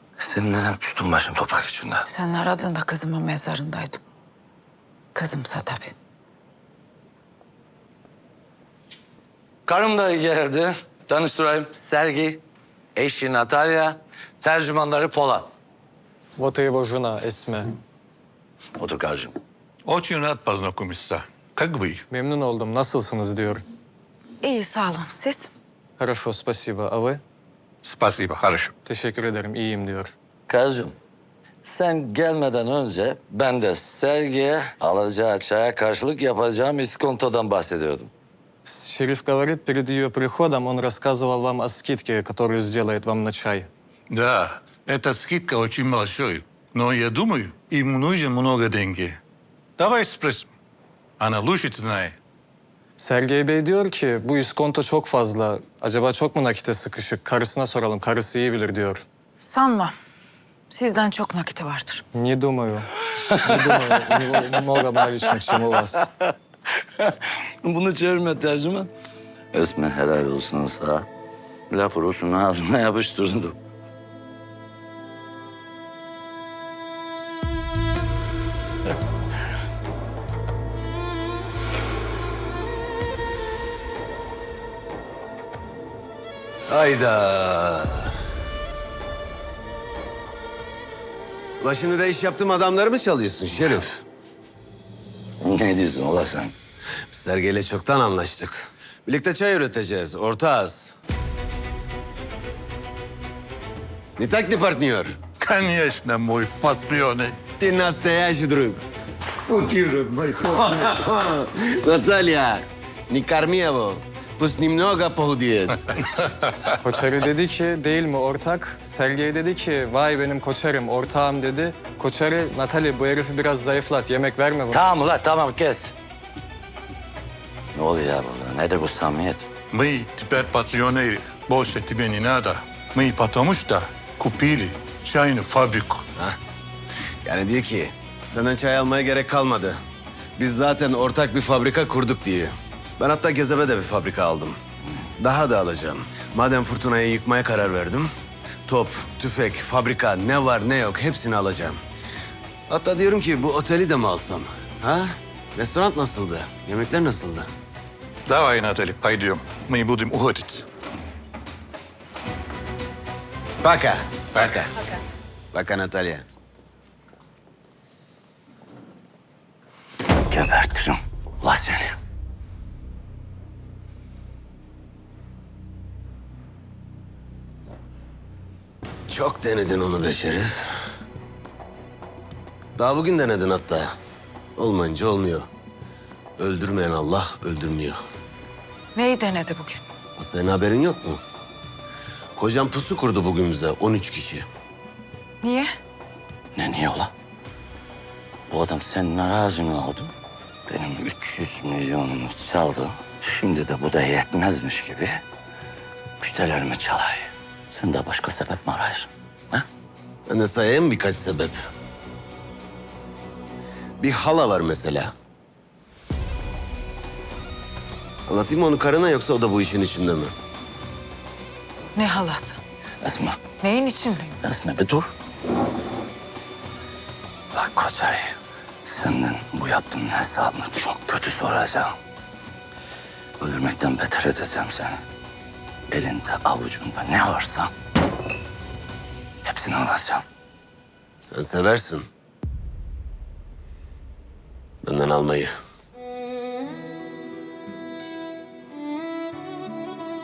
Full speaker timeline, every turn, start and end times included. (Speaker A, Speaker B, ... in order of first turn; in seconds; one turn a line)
Speaker A: 0.2-2.0
Speaker B: 2.1-4.0
Speaker B: 5.2-5.9
Speaker A: 9.7-12.4
Speaker A: 13.0-15.4
Speaker C: 16.4-17.7
Speaker A: 18.8-19.3
Speaker D: 19.9-22.0
Speaker C: 22.1-23.6
Speaker B: 24.4-25.5
Speaker C: 26.0-27.2
Speaker D: 27.8-28.7
Speaker C: 28.8-30.1
Speaker A: 30.5-30.9
Speaker A: 31.6-38.1
Speaker C: 38.6-43.7
Speaker D: 44.1-49.2
Speaker D: 49.8-50.5
Speaker D: 51.2-52.2
Speaker C: 53.0-59.0
Speaker B: 59.4-59.9
Speaker B: 60.7-62.0
Speaker C: 62.1-66.1
Speaker A: 67.7-68.9
Speaker A: 69.5-71.1
Speaker A: 71.7-73.6
Speaker E: 86.7-88.1
Speaker E: 91.6-94.0
Speaker A: 95.4-96.5
Speaker E: 97.1-101.0
Speaker E: 104.2-105.2
Speaker D: 105.4-107.4
Speaker E: 107.6-108.8
Speaker E: 109.5-116.0
Speaker C: 116.8-124.8
Speaker A: 124.7-125.9
Speaker A: 127.8-129.4
Speaker D: 129.7-136.1
Speaker E: 137.2-139.8
Speaker E: 140.4-144.6
Speaker E: 145.2-148.1
Speaker E: 148.7-151.8
Speaker E: 152.7-157.5
Speaker D: 158.3-160.7
Speaker E: 163.6-164.7
Speaker E: 165.5-166.2
Speaker A: 170.3-171.9
Speaker E: 179.1-180.8
Speaker E: 182.8-183.9
Speaker E: 184.6-185.5
Speaker E: 186.4-188.0
Speaker B: 188.9-189.8
Speaker E: 190.2-191.2
Speaker E: 192.4-194.4
Speaker B: 195.4-195.7
Speaker A: 196.6-197.1
Speaker A: 198.5-200.1
Speaker A: 200.7-205.2
Speaker A: 206.2-209.7
Speaker E: 210.3-211.6
Speaker E: 214.0-215.1
Speaker E: 218.3-220.3
Speaker B: 221.9-222.6
Speaker A: 223.0-223.4
Speaker B: 223.6-224.4
Speaker A: 224.4-225.1
Speaker A: 227.5-228.2
Speaker A: 228.9-231.9
Speaker A: 233.4-235.0
Speaker A: 235.9-237.7
Speaker A: 239.4-240.2
Speaker E: 241.2-242.1
Speaker E: 244.8-245.5